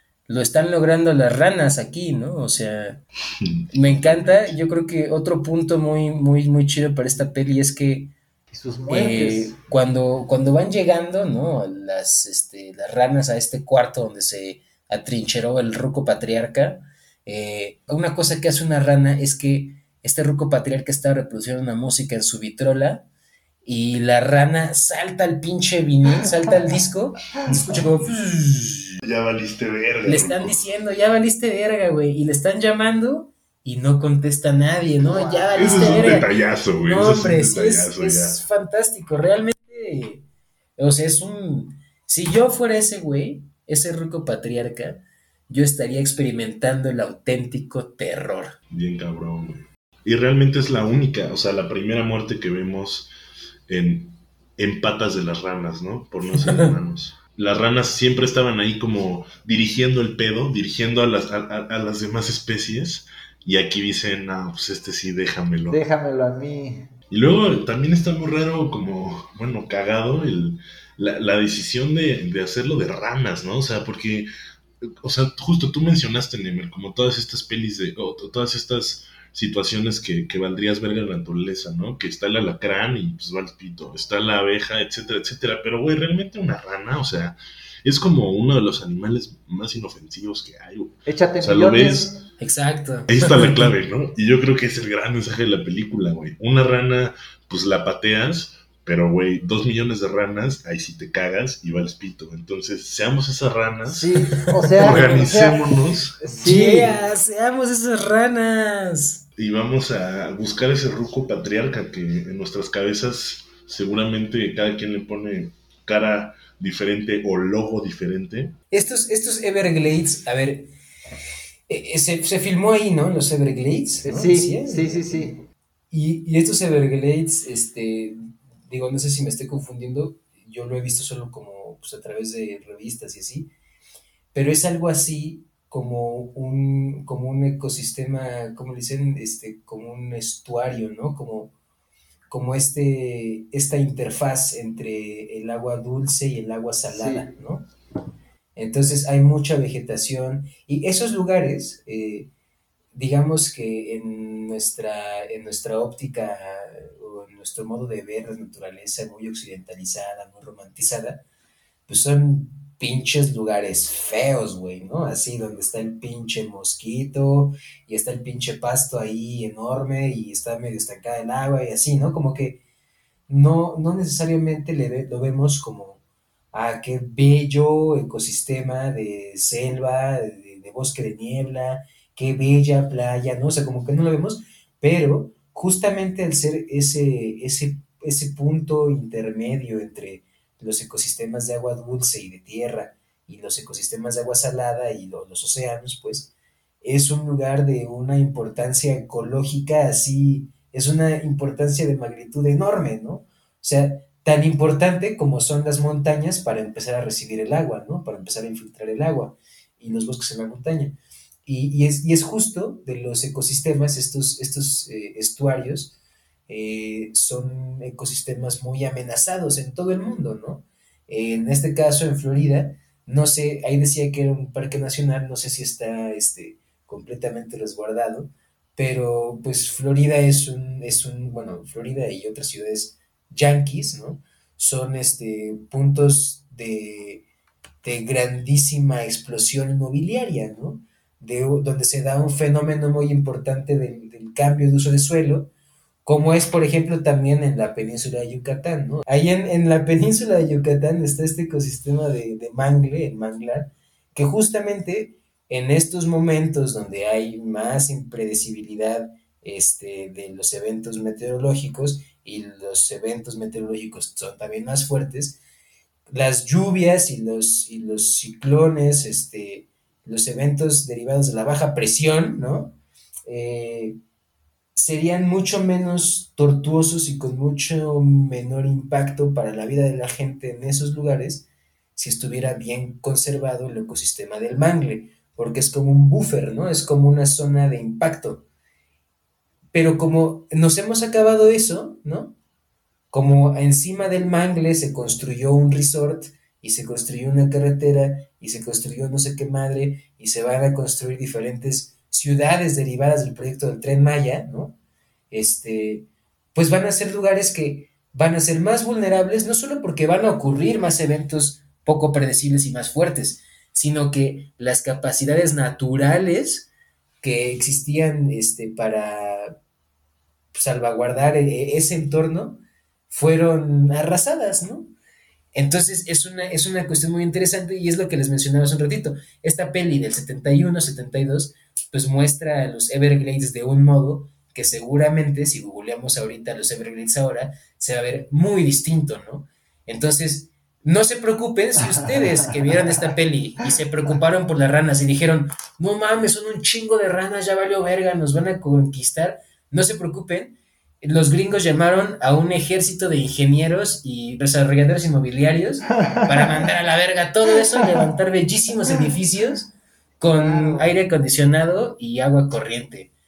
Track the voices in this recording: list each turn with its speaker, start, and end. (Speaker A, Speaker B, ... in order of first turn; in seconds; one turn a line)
Speaker A: 0.3-3.0
Speaker B: 3.4-4.5
Speaker A: 3.7-8.1
Speaker C: 8.5-9.6
Speaker A: 8.9-23.1
Speaker A: 23.6-29.0
Speaker B: 29.0-30.6
Speaker A: 30.0-40.2
Speaker C: 35.0-36.2
Speaker B: 35.5-38.4
Speaker A: 40.8-48.6
Speaker B: 48.7-53.1
Speaker B: 53.7-65.8
Speaker C: 65.7-66.9
Speaker B: 67.1-74.3
Speaker B: 75.0-92.2
Speaker C: 91.0-92.2
Speaker A: 92.4-93.7
Speaker B: 93.1-104.1
Speaker C: 103.9-105.6
Speaker A: 104.5-105.3
Speaker B: 104.8-106.2
Speaker C: 106.2-107.0
Speaker A: 106.4-109.3
Speaker B: 109.4-118.5
Speaker A: 118.7-120.7
Speaker A: 121.7-125.4
Speaker C: 124.0-125.4
Speaker A: 125.9-133.5
Speaker A: 134.3-141.5
Speaker A: 142.3-147.7
Speaker C: 146.9-147.3
Speaker A: 148.6-152.3
Speaker A: 152.9-161.2
Speaker A: 161.9-172.6
Speaker A: 173.3-176.0
Speaker A: 176.5-196.3
Speaker A: 196.8-215.9
Speaker A: 216.5-237.2
Speaker A: 237.8-245.5
Speaker A: 246.0-265.4
Speaker A: 266.1-274.0
Speaker A: 274.8-288.4
Speaker A: 289.7-292.4
Speaker A: 293.1-304.8
Speaker A: 305.3-316.7
Speaker A: 317.2-319.6
Speaker A: 320.5-324.9
Speaker A: 325.5-363.1
Speaker C: 342.0-342.7
Speaker C: 356.0-356.7
Speaker C: 357.6-357.9
Speaker C: 360.3-361.0